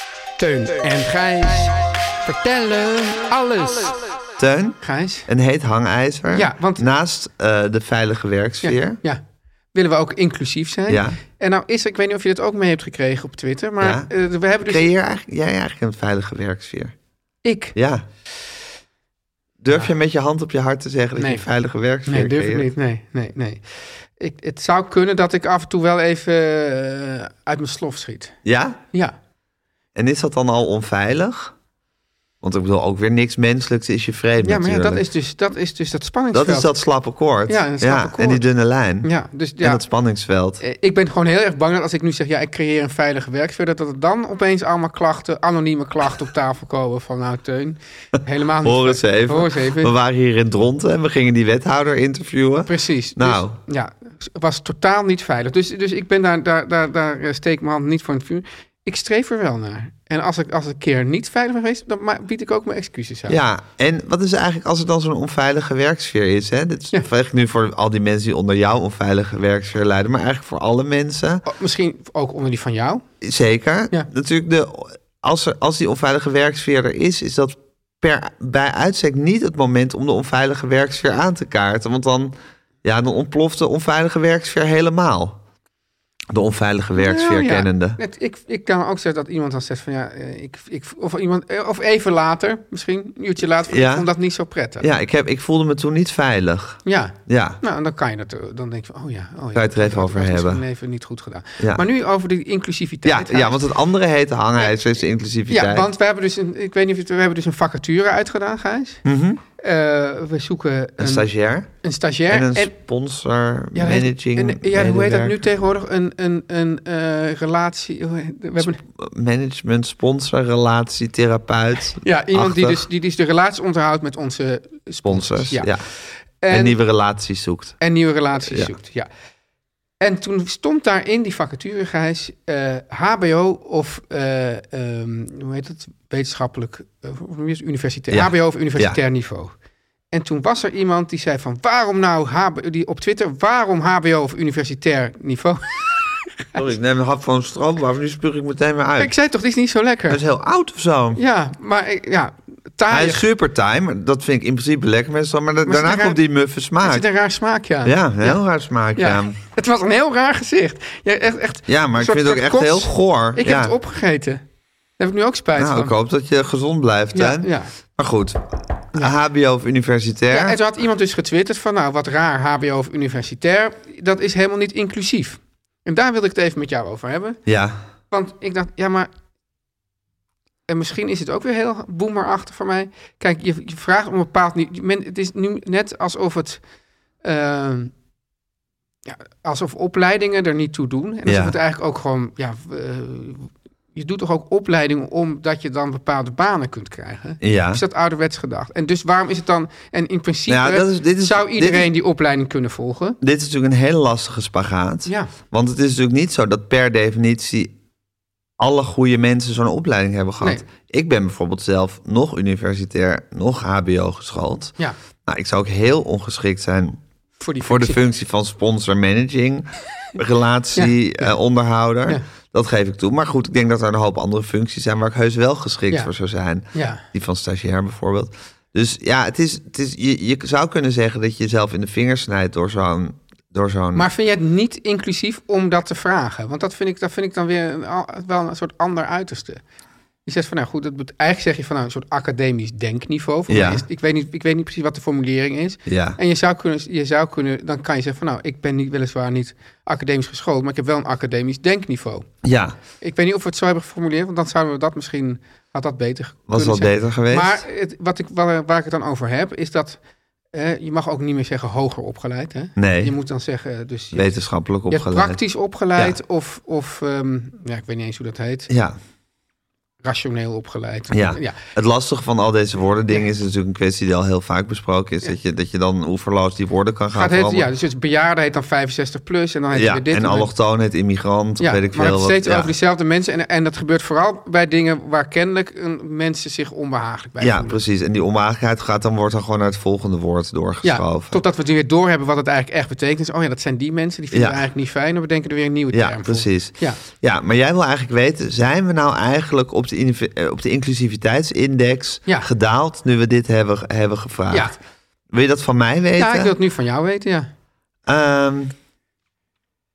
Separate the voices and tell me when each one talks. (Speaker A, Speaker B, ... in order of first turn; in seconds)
Speaker A: 0.4-4.0, 4.8-5.3, 6.3-6.8, 8.6-9.2, 9.7-14.9, 17.4-17.7, 21.2-21.4, 22.1-23.6, 24.2-28.3, 34.4-36.8, 37.5-38.4, 39.0-39.8, 40.6-49.9, 52.7-63.4, 71.5-73.0, 87.0-94.9, 96.8-103.7, 104.6-104.9, 105.5-109.0, 109.6-111.3, 111.8-112.7, 113.7-118.8, 122.0-125.7, 126.4-126.7, 127.8-129.1, 130.0-139.5, 140.1-146.5, 149.0-150.2, 151.2-153.2, 155.6-156.2, 156.8-158.4, 158.9-164.4, 165.0-165.9, 167.1-167.7, 170.3-177.4, 178.1-179.1, 180.7-186.6, 187.2-187.9, 189.1-203.2, 217.4-218.0, 220.7-221.3, 226.7-227.0, 233.9-239.6, 240.2-252.3, 253.0-260.0, 260.5-264.3, 264.9-268.7, 270.0-271.6, 277.1-280.5, 281.6-287.8, 290.8-297.0, 306.2-307.5
Speaker B: 4.4-9.0, 10.9-11.2, 13.8-14.1, 14.6-16.9, 17.7-18.1, 19.6-22.7, 28.4-28.8, 29.9-31.5, 32.4-35.0, 36.3-39.1, 39.6-40.6, 48.6-53.5, 63.3-71.4, 73.2-85.4, 86.3-88.0, 93.7-94.1, 94.8-97.6, 99.5-100.6, 101.6-101.9, 103.0-105.9, 109.0-109.4, 111.0-111.7, 112.3-115.4, 118.6-122.8, 125.0-125.8, 126.5-127.8, 128.4-128.7, 138.1-139.0, 146.5-149.1, 150.1-151.2, 152.9-157.1, 157.8-159.4, 161.7-163.7, 165.6-170.6, 177.5-177.8, 191.2-191.6, 197.4-197.8, 200.5-201.9, 203.2-207.7, 208.6-214.7, 215.2-217.0, 217.6-234.1, 243.5-243.8, 245.9-246.2, 252.4-252.8, 256.5-257.6, 262.8-263.1, 264.1-265.4, 268.7-269.0, 271.1-277.7, 279.7-282.7, 287.4-291.4, 294.3-294.6, 295.9-304.7, 305.3-306.5, 308.1-308.7